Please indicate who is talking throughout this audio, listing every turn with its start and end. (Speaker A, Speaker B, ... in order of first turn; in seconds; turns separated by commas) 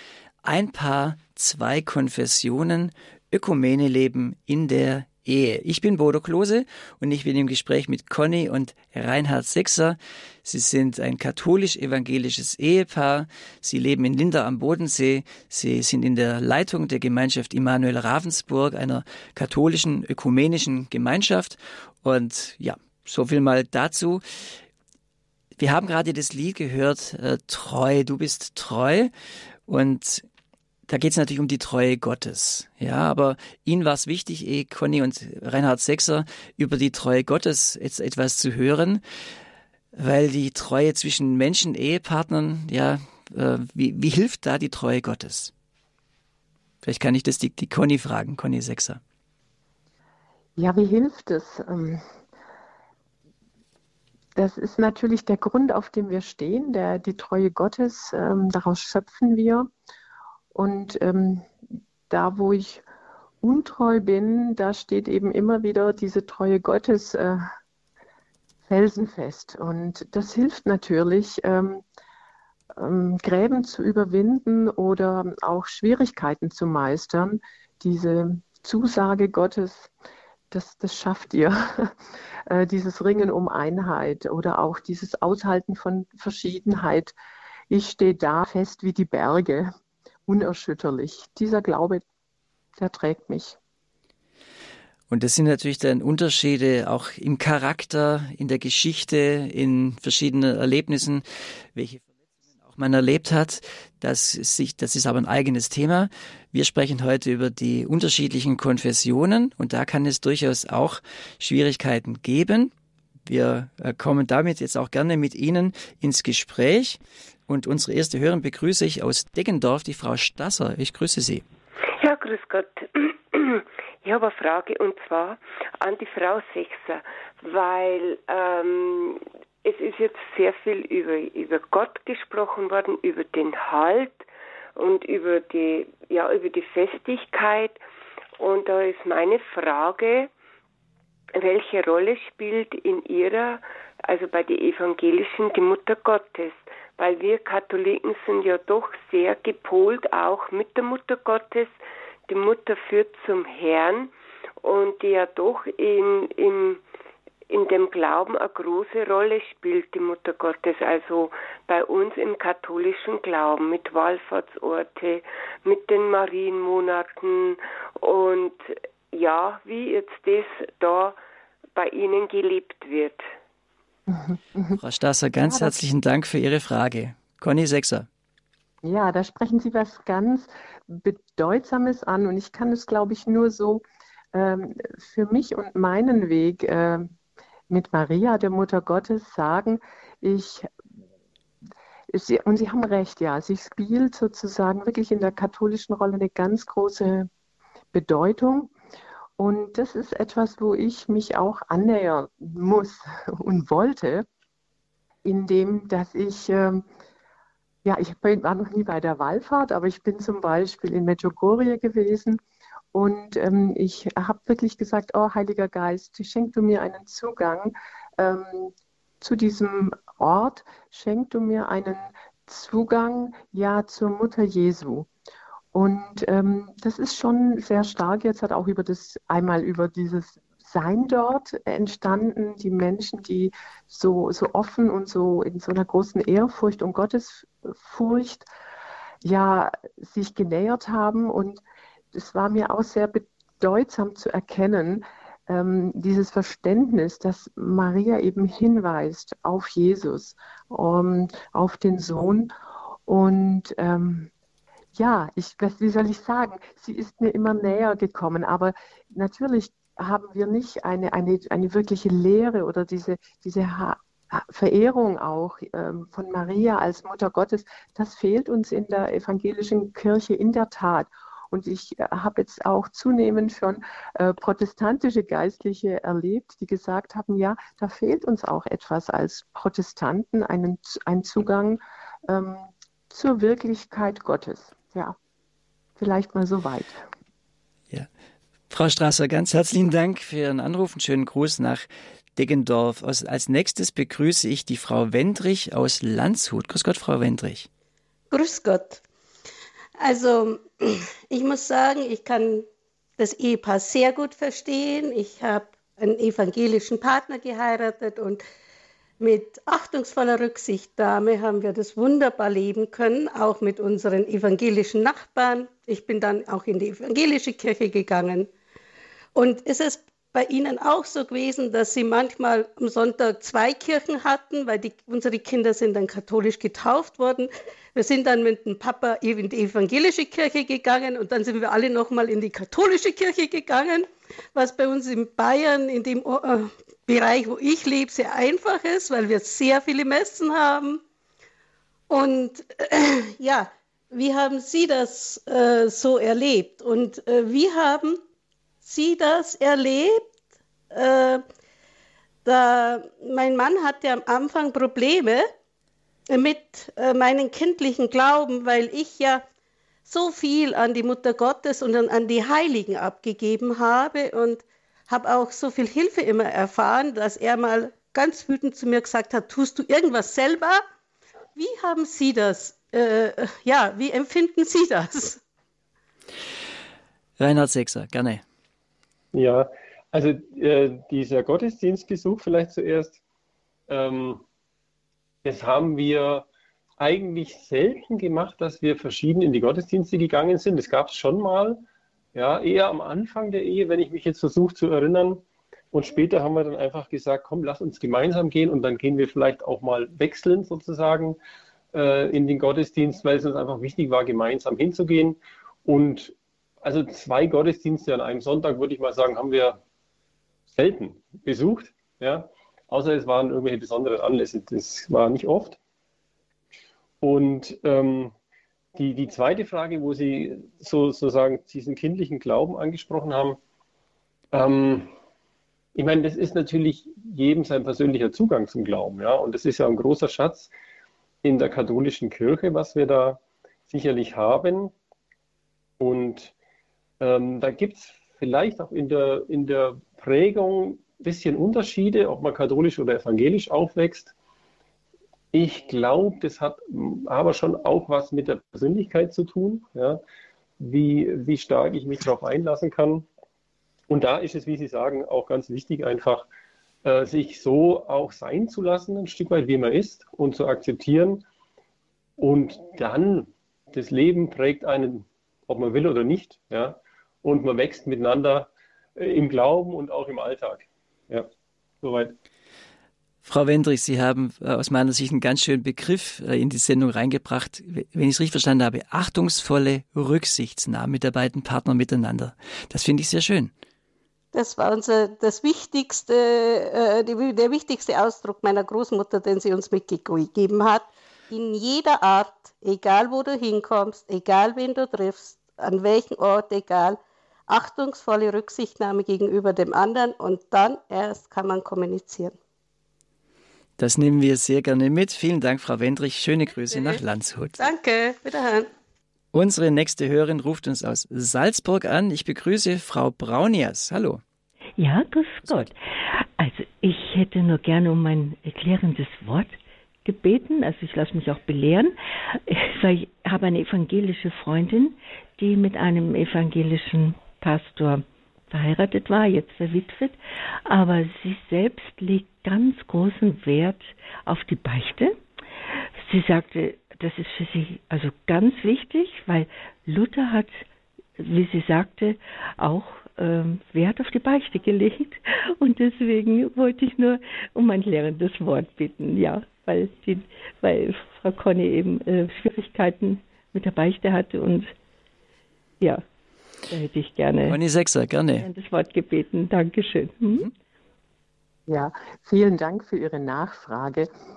Speaker A: 0.4-24.6, Speaker A: 25.6-29.1, Speaker A: 29.7-30.2, Speaker A: 30.9-39.0, Speaker A: 40.0-45.5, Speaker A: 46.8-49.0, Speaker B: 50.6-52.0, Speaker B: 54.4-59.7, Speaker B: 60.5-61.5, Speaker B: 62.1-62.8, Speaker B: 63.4-67.4, Speaker B: 68.7-71.8, Speaker B: 72.8-79.9, Speaker B: 80.5-82.0, Speaker B: 82.5-87.1, Speaker B: 87.7-89.7, Speaker B: 90.3-92.0, Speaker B: 92.8-93.6, Speaker A: 95.1-102.0, Speaker A: 102.7-112.7, Speaker A: 113.2-121.4, Speaker C: 122.0-137.8, Speaker C: 138.4-140.3, Speaker C: 141.3-151.7, Speaker C: 152.3-156.8, Speaker C: 157.5-171.2, Speaker C: 171.7-173.2, Speaker B: 174.1-174.8, Speaker A: 174.8-178.1, Speaker B: 175.4-175.7, Speaker B: 178.8-187.1, Speaker B: 187.7-190.7, Speaker B: 192.1-197.3, Speaker B: 197.9-198.7, Speaker B: 199.4-204.2, Speaker B: 205.2-206.8, Speaker B: 207.8-212.4, Speaker B: 212.9-225.1, Speaker B: 225.7-238.5, Speaker B: 239.2-252.5, Speaker B: 253.1-254.3, Speaker B: 254.9-285.1, Speaker B: 286.0-287.0, Speaker A: 288.7-297.7, Speaker D: 298.3-299.0, Speaker D: 300.0-302.6, Speaker D: 303.2-308.4, Speaker D: 309.2-318.5, Speaker D: 319.3-341.0, Speaker D: 342.1-348.2, Speaker D: 348.8-350.3, Speaker D: 350.9-351.4, Speaker D: 352.4-355.4, Speaker D: 356.3-359.4, Speaker D: 360.1-370.8, Speaker D: 371.6-375.4, Speaker A: 377.4-378.4, Speaker E: 379.3-383.2, Speaker E: 383.9-384.4, Speaker E: 385.4-386.4, Speaker E: 387.0-391.8, Speaker E: 392.3-401.4, Speaker E: 401.9-409.8, Speaker E: 410.7-415.8, Speaker E: 417.2-418.3, Speaker E: 418.9-423.6, Speaker E: 424.5-425.1, Speaker E: 425.9-430.7, Speaker E: 431.4-434.9, Speaker E: 436.0-436.5, Speaker E: 437.2-444.3, Speaker E: 445.5-450.2, Speaker E: 450.8-453.2, Speaker E: 454.1-456.5, Speaker E: 457.0-461.4, Speaker E: 462.4-471.5, Speaker E: 472.0-472.3, Speaker A: 473.4-483.7, Speaker D: 484.5-502.5, Speaker A: 504.0-507.8, Speaker D: 506.9-507.2, Speaker D: 507.8-508.9, Speaker A: 509.5-514.4, Speaker F: 515.0-535.4, Speaker A: 515.6-515.9, Speaker F: 536.2-540.8, Speaker F: 541.4-554.9, Speaker F: 556.9-557.8, Speaker A: 557.7-558.6, Speaker F: 558.6-560.7, Speaker B: 561.9-564.3